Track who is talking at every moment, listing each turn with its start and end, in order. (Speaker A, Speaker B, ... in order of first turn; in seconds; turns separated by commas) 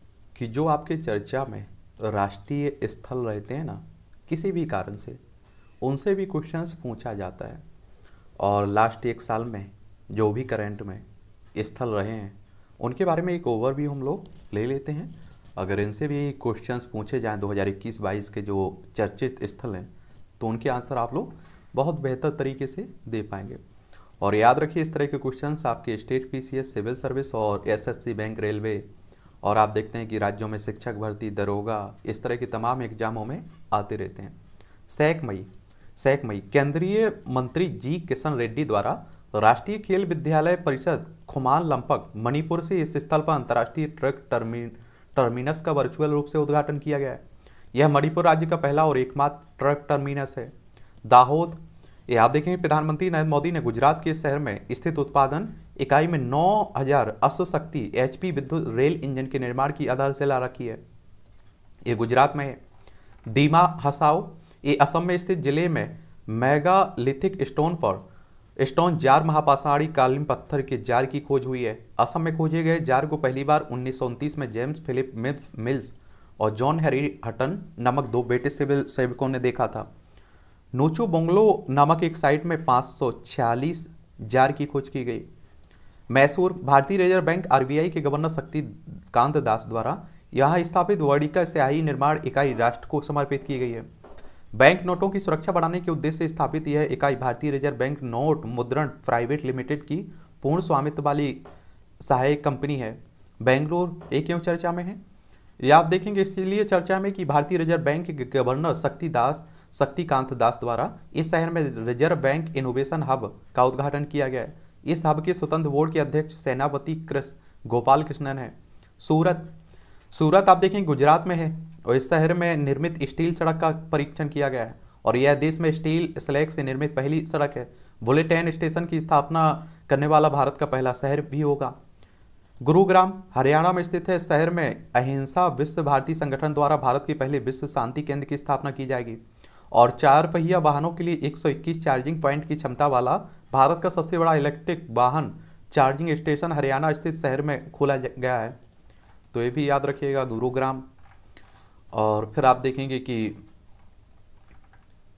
Speaker A: 0.3-5.2, Speaker A: 5.8-7.6, Speaker A: 8.4-11.0, Speaker A: 11.6-23.6, Speaker A: 24.2-28.9, Speaker A: 29.4-34.4, Speaker A: 34.9-47.2, Speaker A: 47.7-50.5, Speaker A: 51.0-60.8, Speaker A: 61.9-62.6, Speaker A: 63.3-68.0, Speaker A: 68.6-79.9, Speaker A: 80.7-85.3, Speaker A: 86.1-93.9, Speaker A: 94.5-101.4, Speaker A: 102.0-105.0, Speaker A: 105.6-119.5, Speaker A: 120.1-131.8, Speaker A: 132.6-139.2, Speaker A: 139.7-148.6, Speaker A: 149.3-150.9, Speaker A: 151.9-153.4